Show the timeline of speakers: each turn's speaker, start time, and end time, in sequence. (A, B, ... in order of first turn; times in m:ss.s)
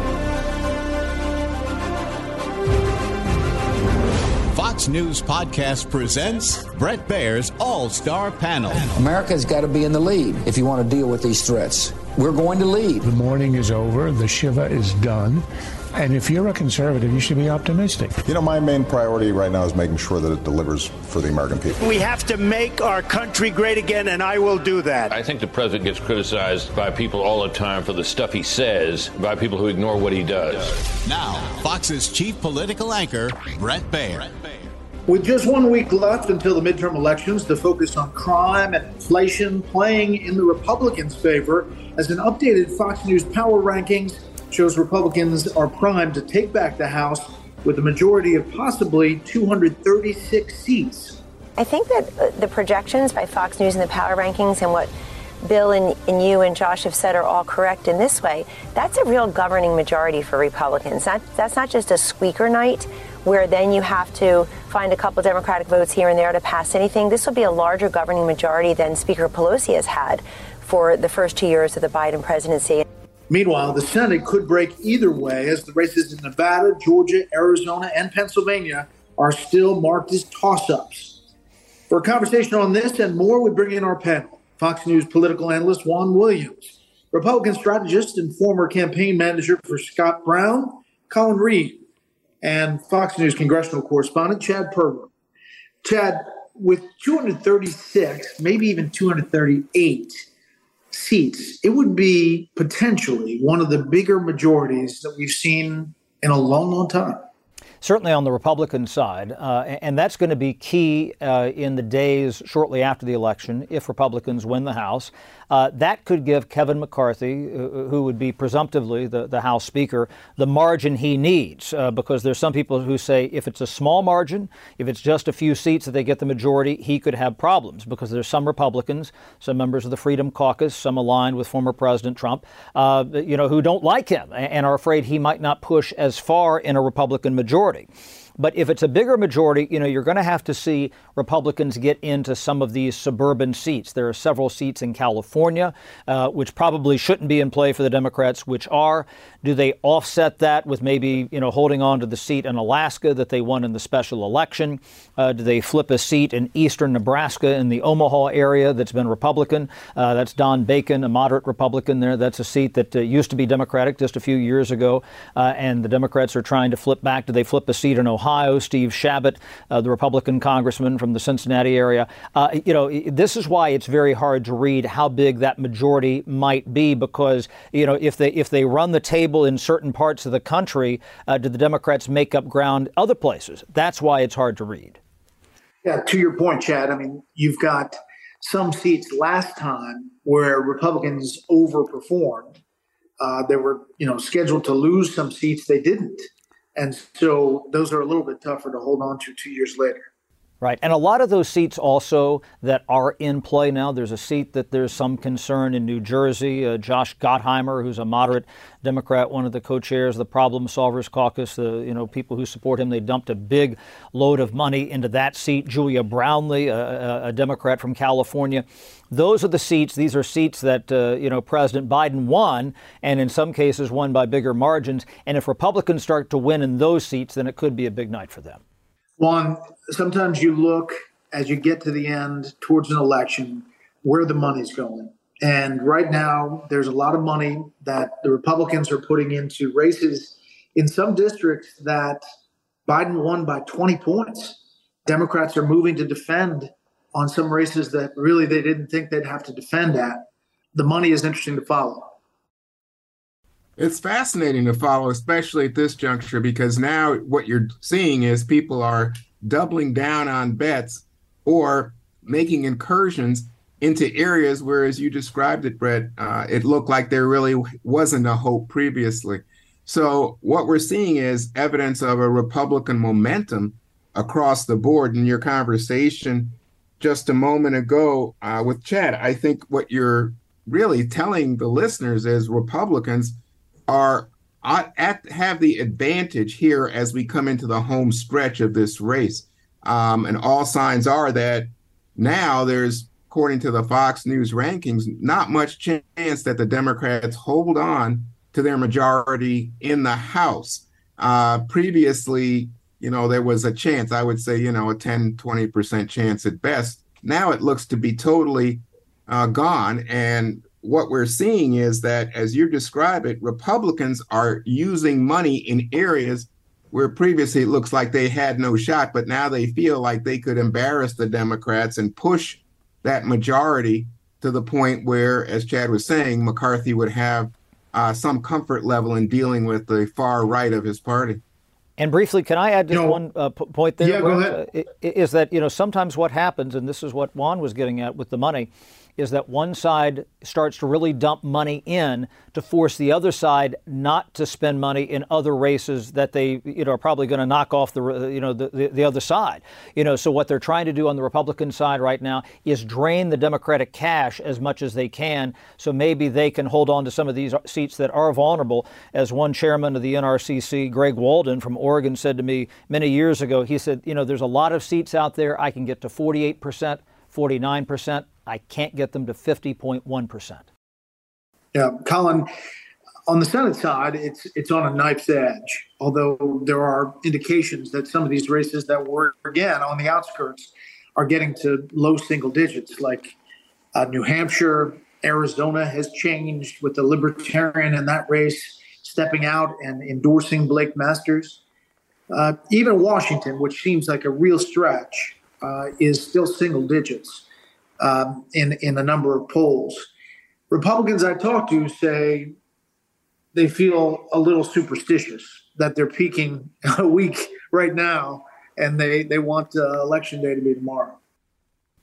0:04.5-0:09.0 A
0:09.0-0:13.1 B
0:13.1-0:15.4 C
0:16.0-0:18.1 C
0:18.2-0:21.8 D
0:21.8-0:25.1 E
0:25.0-0:30.9 F
0:31.0-0:34.5 A
0:35.1-0:51.2 G
0:51.6-0:54.9 H
0:55.4-1:12.8 H
1:13.3-1:21.2 G
1:21.9-1:31.8 G
1:32.4-1:35.1 G
1:35.8-1:40.2 G
1:40.9-1:47.2 G
1:47.8-3:05.0 I
3:05.8-3:12.6 G
3:13.2-3:20.1 G
3:20.6-3:48.6 I
3:49.2-4:02.2 G
4:02.9-4:12.1 G
4:13.8-5:31.4 J
5:32.0-6:10.6 I
5:32.9-5:33.2 G
5:34.0-5:34.6 G
6:11.7-6:12.5 G
6:13.3-6:23.3 G
6:23.9-6:31.6 G
6:32.3-6:37.4 G
6:38.0-6:40.1 G
6:40.7-6:42.5 G
6:43.5-6:51.2 G